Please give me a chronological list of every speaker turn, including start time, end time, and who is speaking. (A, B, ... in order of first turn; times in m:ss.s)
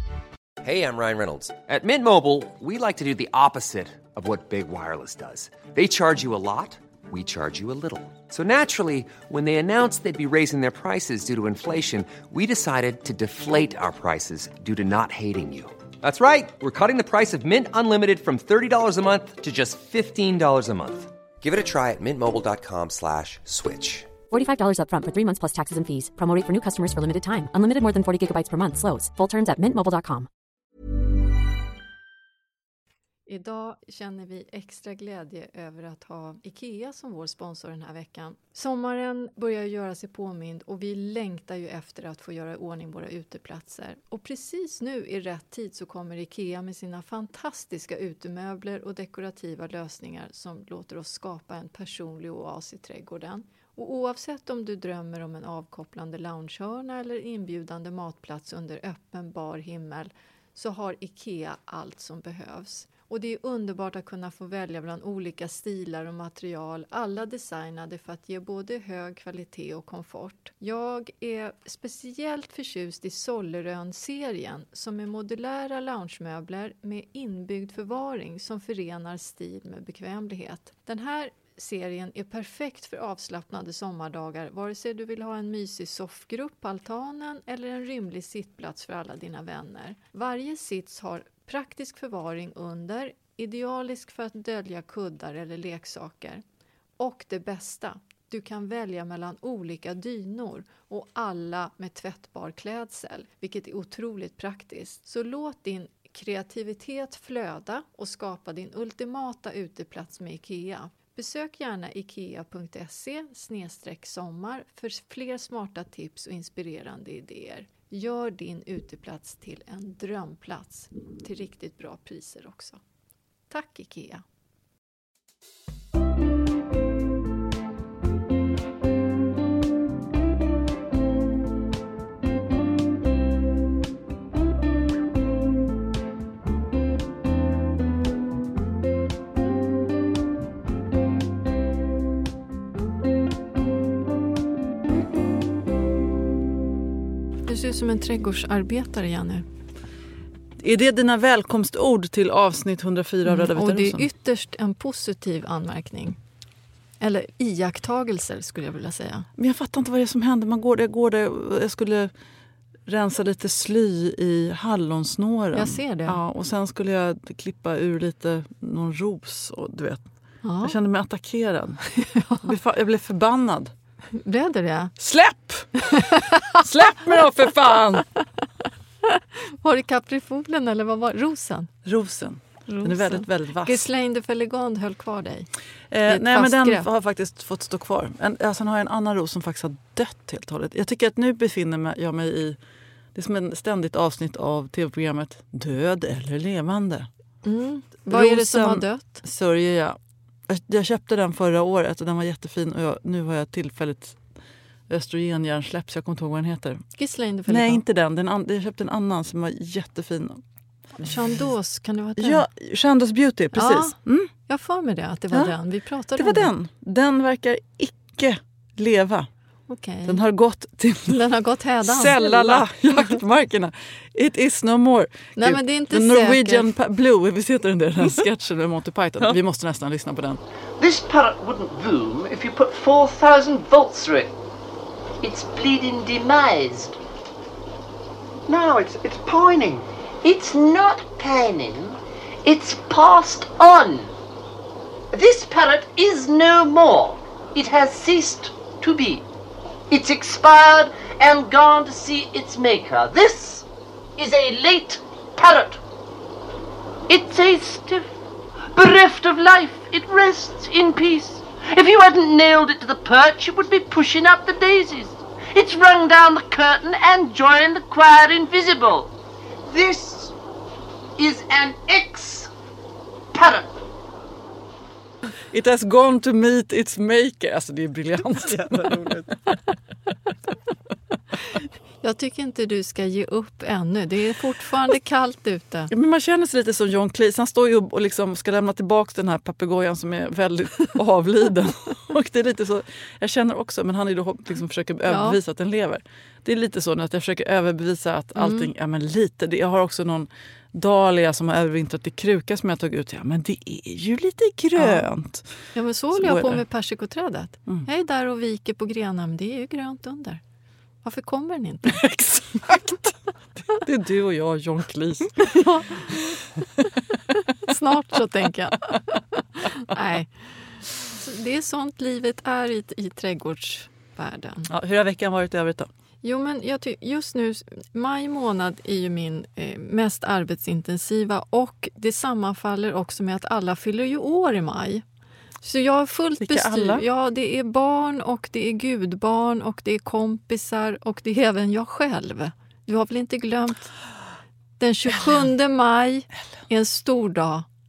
0:00.6-0:24.2 A
0:24.3-0:30.3 B
0:33.3-1:36.4 C
1:37.0-2:02.8 C
2:03.5-2:04.2 C
2:27.5-2:29.4 C
2:30.6-2:34.1 D
2:33.2-2:36.2 C
2:37.0-2:39.3 C
2:39.4-2:42.1 D
2:42.8-2:50.1 D
2:45.5-2:46.2 C
2:50.4-2:50.8 C
2:50.6-2:51.8 D
2:52.0-2:52.5 C
2:52.4-2:53.7 D
2:54.1-2:54.9 C
2:55.0-2:58.0 D
2:55.9-2:56.6 C
2:59.1-3:01.7 C
3:01.8-3:03.9 D
3:02.7-3:05.5 C
3:05.9-3:12.6 D
3:06.1-3:06.8 C
3:13.1-3:17.1 D
3:17.4-3:19.2 C
3:18.1-3:24.2 D
3:24.9-3:26.8 D
3:27.0-3:27.8 C
3:27.5-3:30.4 D
3:31.0-3:32.4 C
3:32.2-3:34.3 D
3:33.5-3:34.0 C
3:34.5-3:36.5 C
3:36.2-3:39.3 D
3:39.7-3:40.2 C
3:40.0-3:41.2 D
3:41.1-3:43.1 C
3:41.8-3:50.4 D
3:45.4-3:46.7 C
3:50.8-3:54.3 E
3:55.2-3:57.0 E
3:58.5-4:04.1 E
4:05.1-4:09.2 E
4:09.9-4:13.6 E
4:14.2-4:15.8 E
4:17.1-4:18.1 E
4:18.7-4:29.1 E
4:29.7-4:30.3 E
4:31.2-4:32.5 E
4:33.3-4:33.7 E
4:35.5-4:39.6 D
4:42.0-4:45.9 C
4:45.9-5:05.5 D
4:55.1-4:55.4 C
4:58.4-4:58.7 C
5:04.8-5:05.0 C
5:05.7-5:10.4 C
5:06.1-5:06.6 D
5:11.0-5:12.0 C
5:11.9-5:16.4 D
5:15.6-5:16.3 C
5:17.6-5:20.4 C
5:21.0-5:24.7 C
5:24.7-5:25.9 D
5:26.2-5:35.0 C
5:35.6-5:43.9 C
5:36.4-5:37.0 D
5:44.8-5:47.6 C